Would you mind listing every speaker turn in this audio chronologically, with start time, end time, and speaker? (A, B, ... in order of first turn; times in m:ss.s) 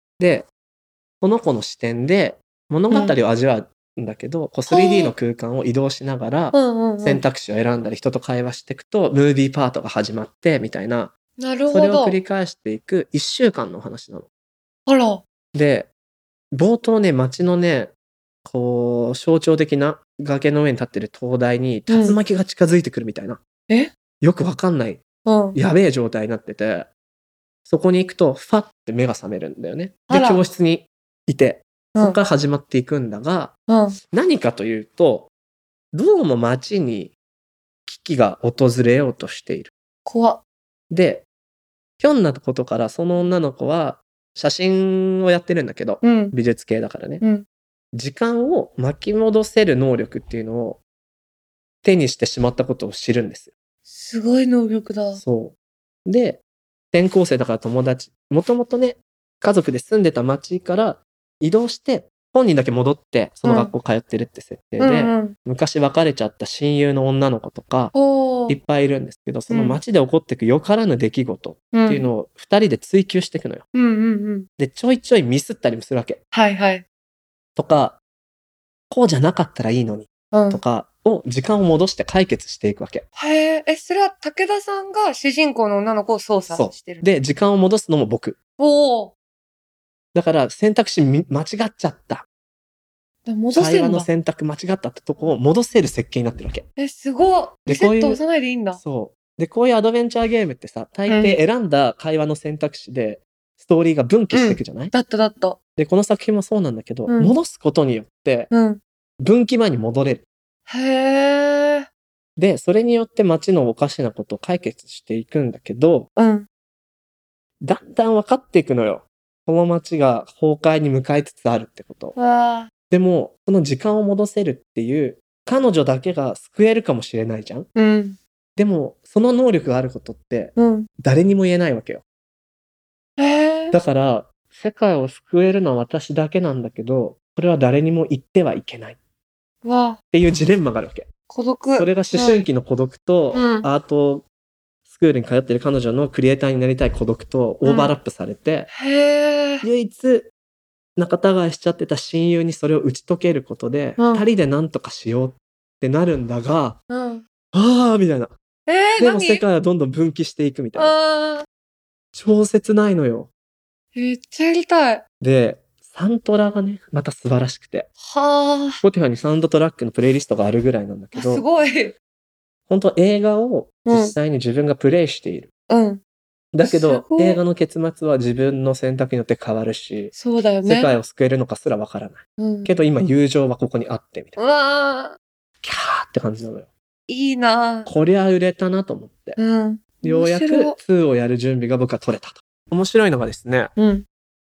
0:00.2-0:00.5 A
0:01.2-0:11.1 A
0:02.9-0:03.2 B
0:04.7-0:05.1 B
0:06.5-0:07.2 B
0:11.4-0:12.2 B
0:11.7-0:14.2 A
0:14.9-0:15.2 B
0:15.5-0:15.9 A
0:16.5-0:17.9 A
0:18.4-0:23.4 A
0:21.9-0:22.2 B
0:24.2-0:25.0 A
0:25.2-0:25.6 B
0:25.5-0:26.9 A
0:27.6-0:33.5 A
0:30.1-0:30.4 B
0:33.7-0:34.0 B
0:34.1-0:35.3 A
0:35.9-0:37.1 A
0:37.9-0:39.7 A
0:40.0-0:40.4 B
0:40.9-0:41.2 A
0:42.0-0:47.2 A
0:46.0-0:46.3 B
0:47.9-0:50.8 A
0:51.8-0:53.5 A
0:53.8-0:55.2 B
0:55.2-0:55.5 A
0:56.0-0:56.4 A
0:56.9-1:07.9 A
1:03.4-1:03.7 B
1:04.8-1:05.3 B
1:07.9-1:08.6 B
1:08.5-1:13.6 A
1:09.5-1:09.8 B
1:11.7-1:12.1 B
1:13.7-1:14.5 B
1:14.6-1:16.2 A
1:16.3-1:16.8 B
1:17.6-1:18.0 A
1:18.9-1:23.0 A
1:20.3-1:20.6 B
1:23.2-1:27.1 B
1:26.5-1:28.4 A
1:28.6-1:29.1 B
1:30.1-1:32.2 A
1:33.2-1:34.1 B
1:33.5-1:36.6 A
1:36.8-1:38.8 B
1:37.6-1:38.2 A
1:38.8-1:44.9 A
1:41.1-1:41.4 B
1:44.3-1:45.6 B
1:45.8-1:48.5 A
1:47.1-1:47.4 B
1:48.5-1:48.8 B
1:49.2-1:50.2 A
1:50.7-1:51.9 B
1:52.4-1:56.1 A
1:56.2-1:56.5 B
1:57.6-2:02.1 A
2:02.1-2:02.7 B
2:02.9-2:07.7 A
2:07.7-2:08.2 B
2:08.6-2:12.0 A
2:10.6-2:10.9 B
2:13.2-2:13.8 B
2:13.7-2:19.0 A
2:19.6-2:20.0 B
2:20.1-2:21.1 A
2:21.3-2:22.4 B
2:21.8-2:24.2 A
2:23.3-2:23.7 B
2:24.9-2:28.7 A
2:27.6-2:27.9 B
2:28.7-2:29.6 B
2:29.6-2:30.3 A
2:31.0-2:36.8 A
2:34.0-2:34.3 B
2:36.9-2:37.2 B
2:37.5-2:38.3 A
2:38.7-2:39.4 B
2:39.0-2:40.9 A
2:40.7-2:41.4 B
2:42.1-2:43.3 A
2:43.9-2:45.0 B
2:45.2-2:47.9 A
2:48.0-2:48.8 B
2:48.8-2:51.4 A
2:51.1-2:51.9 B
2:52.7-2:55.5 A
2:53.8-2:54.2 B
2:55.7-2:56.0 B
2:56.5-3:04.4 A
2:56.6-2:57.4 B
3:00.1-3:00.9 B
3:02.4-3:02.7 B
3:04.4-3:05.2 B
3:05.6-3:06.7 A
3:07.1-3:07.9 B
3:07.8-3:09.4 A
3:09.4-3:10.8 B
3:10.0-3:13.7 A
3:13.8-3:14.0 B